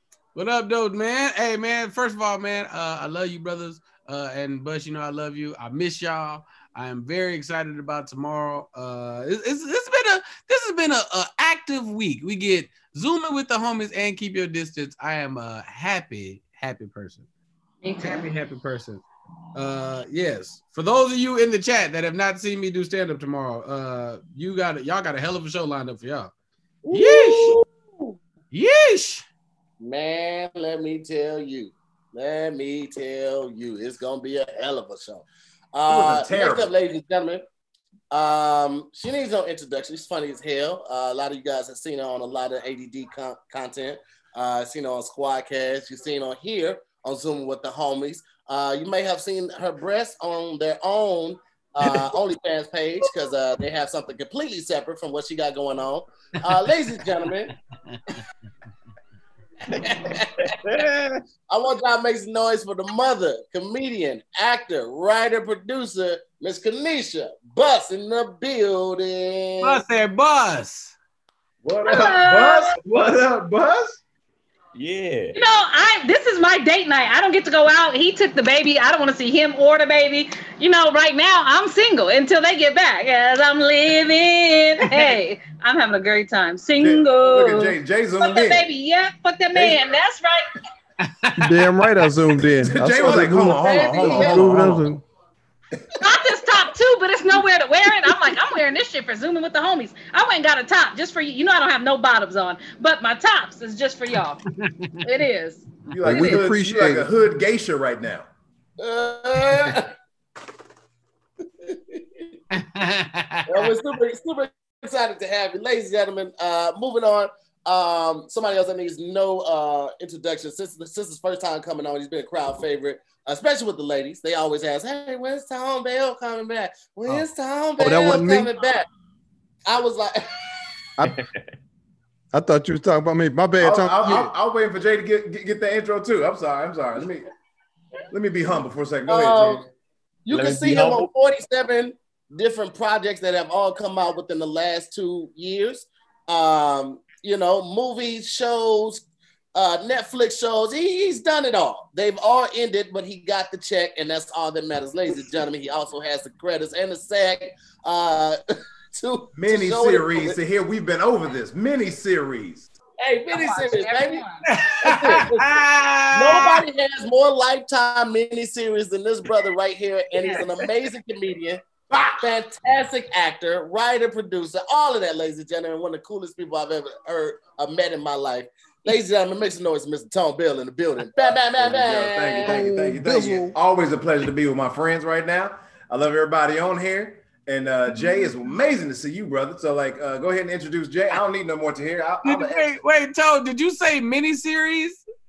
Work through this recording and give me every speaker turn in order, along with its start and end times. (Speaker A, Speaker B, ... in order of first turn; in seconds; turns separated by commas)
Speaker A: 0.3-17.2, Speaker B: 17.8-18.3, Speaker A: 18.0-19.0, Speaker A: 19.5-26.3, Speaker C: 26.8-28.1, Speaker A: 26.9-27.6, Speaker A: 28.5-29.2, Speaker C: 29.8-37.4, Speaker D: 35.9-36.7, Speaker C: 38.1-57.5, Speaker A: 57.9-58.2, Speaker A: 59.8-60.1, Speaker C: 59.8-60.3, Speaker E: 60.5-61.1, Speaker C: 61.5-69.8, Speaker A: 69.6-70.9, Speaker D: 71.6-74.0, Speaker B: 71.8-72.8, Speaker E: 74.7-75.3, Speaker B: 75.3-90.6, Speaker D: 86.8-88.7, Speaker D: 89.5-89.8, Speaker A: 91.0-91.6, Speaker F: 91.4-95.0, Speaker D: 92.6-94.9, Speaker B: 93.5-94.5, Speaker D: 95.7-96.0, Speaker B: 96.0-104.4, Speaker A: 104.5-105.0, Speaker B: 105.0-106.4, Speaker D: 105.9-108.3, Speaker F: 106.0-107.1, Speaker C: 108.8-109.9, Speaker C: 111.7-112.0, Speaker A: 112.5-113.7, Speaker C: 113.5-128.9, Speaker F: 127.8-128.5, Speaker C: 129.7-130.4, Speaker F: 131.0-131.2, Speaker E: 131.0-131.4, Speaker F: 132.3-134.3, Speaker D: 133.6-137.3, Speaker D: 138.1-139.7, Speaker C: 139.1-139.7, Speaker C: 140.2-158.4, Speaker E: 140.3-141.1, Speaker C: 158.9-160.4, Speaker D: 159.3-162.7, Speaker C: 163.0-164.2, Speaker B: 163.3-164.4, Speaker A: 164.4-166.7, Speaker C: 164.8-171.6, Speaker C: 172.2-182.6, Speaker D: 181.6-192.8, Speaker F: 182.4-183.5, Speaker A: 192.2-195.0